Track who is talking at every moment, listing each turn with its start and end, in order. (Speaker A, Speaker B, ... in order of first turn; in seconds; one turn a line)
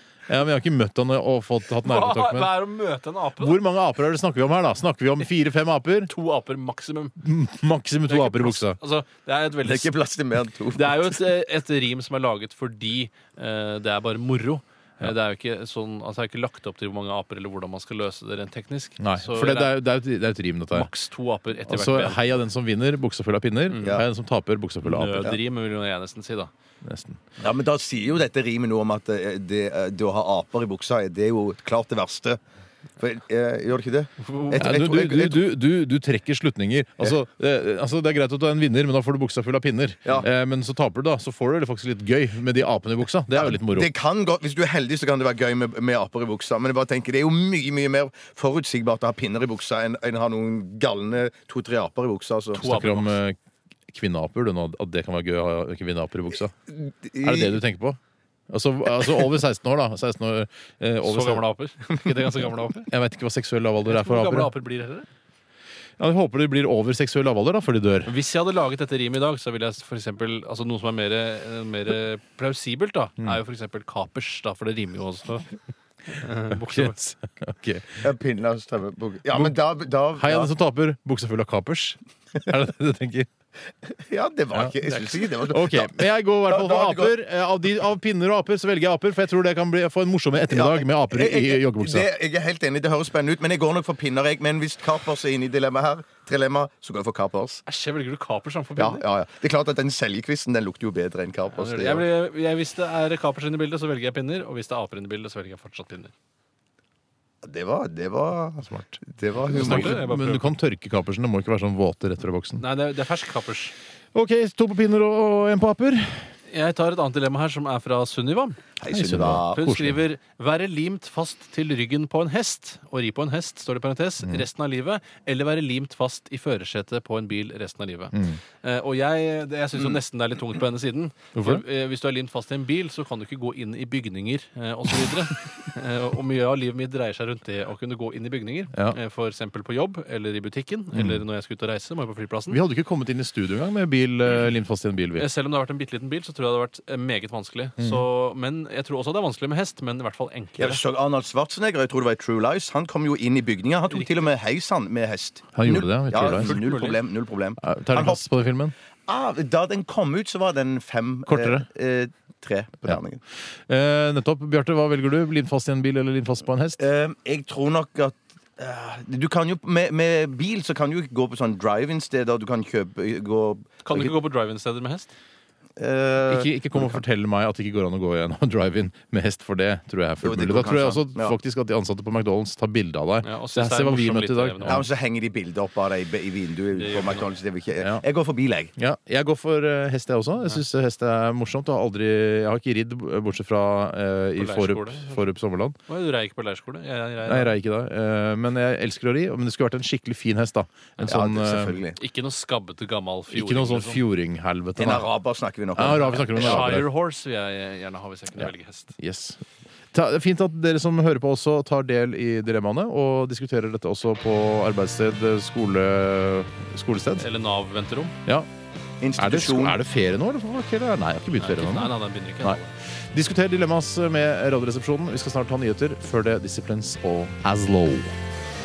Speaker A: 0.3-2.5
Speaker B: 1.8-3.6
Speaker A: 3.4-6.1
Speaker B: 6.1-7.2
Speaker A: 7.2-8.8
Speaker B: 8.1-9.9
Speaker C: 9.6-11.2
Speaker B: 10.7-19.8
Speaker A: 19.0-20.9
Speaker B: 20.7-22.3
Speaker A: 21.7-25.4
Speaker B: 23.7-24.0
Speaker B: 24.8-26.5
Speaker A: 26.8-27.2
Speaker C: 27.4-32.4
Speaker C: 33.0-35.5
Speaker B: 34.2-34.7
Speaker A: 34.6-43.9
Speaker C: 43.3-52.6
Speaker B: 52.5-53.2
Speaker A: 52.6-53.4
Speaker A: 53.9-56.5
Speaker C: 56.7-57.6
Speaker A: 57.2-58.0
Speaker A: 58.5-61.4
Speaker B: 61.0-62.9
Speaker A: 62.9-64.5
Speaker B: 63.9-65.1
Speaker A: 66.0-68.1
Speaker B: 68.1-75.5
Speaker B: 76.1-77.0
Speaker A: 76.6-78.0
Speaker C: 78.0-80.5
Speaker A: 80.1-83.3
Speaker C: 83.8-87.1
Speaker A: 84.5-92.1
Speaker C: 90.4-97.6
Speaker B: 97.7-99.0
Speaker C: 98.8-102.1
Speaker B: 101.5-106.1
Speaker C: 107.4-110.0
Speaker A: 108.6-109.0
Speaker B: 109.4-110.5
Speaker A: 109.5-112.6
Speaker B: 112.6-113.7
Speaker A: 114.1-116.3
Speaker B: 116.5-118.6
Speaker C: 118.8-119.6
Speaker A: 118.9-120.0
Speaker B: 119.5-142.6
Speaker A: 128.1-128.4
Speaker A: 131.3-131.6
Speaker A: 140.9-141.2
Speaker A: 142.5-145.3
Speaker B: 145.2-150.8
Speaker A: 147.8-148.1
Speaker C: 150.6-158.2
Speaker B: 153.9-154.3
Speaker A: 155.6-156.6
Speaker B: 156.2-157.0
Speaker A: 157.6-158.7
Speaker C: 159.1-163.2
Speaker A: 161.3-161.7
Speaker A: 163.7-166.8
Speaker C: 166.8-174.1
Speaker B: 173.8-175.1
Speaker C: 175.8-177.0
Speaker A: 176.3-184.9
Speaker C: 180.2-181.4
Speaker B: 183.2-184.8
Speaker C: 184.7-188.7
Speaker B: 186.7-187.3
Speaker A: 188.8-195.8
Speaker B: 194.4-195.2
Speaker B: 195.9-197.6
Speaker A: 197.2-201.8
Speaker C: 201.1-202.0
Speaker B: 202.0-204.0
Speaker A: 203.3-205.1
Speaker C: 204.8-206.8
Speaker A: 205.8-206.8
Speaker B: 205.9-208.9
Speaker A: 208.4-209.4
Speaker A: 209.9-217.3
Speaker B: 217.2-218.1
Speaker C: 219.0-219.8
Speaker A: 219.2-228.1
Speaker B: 221.4-222.7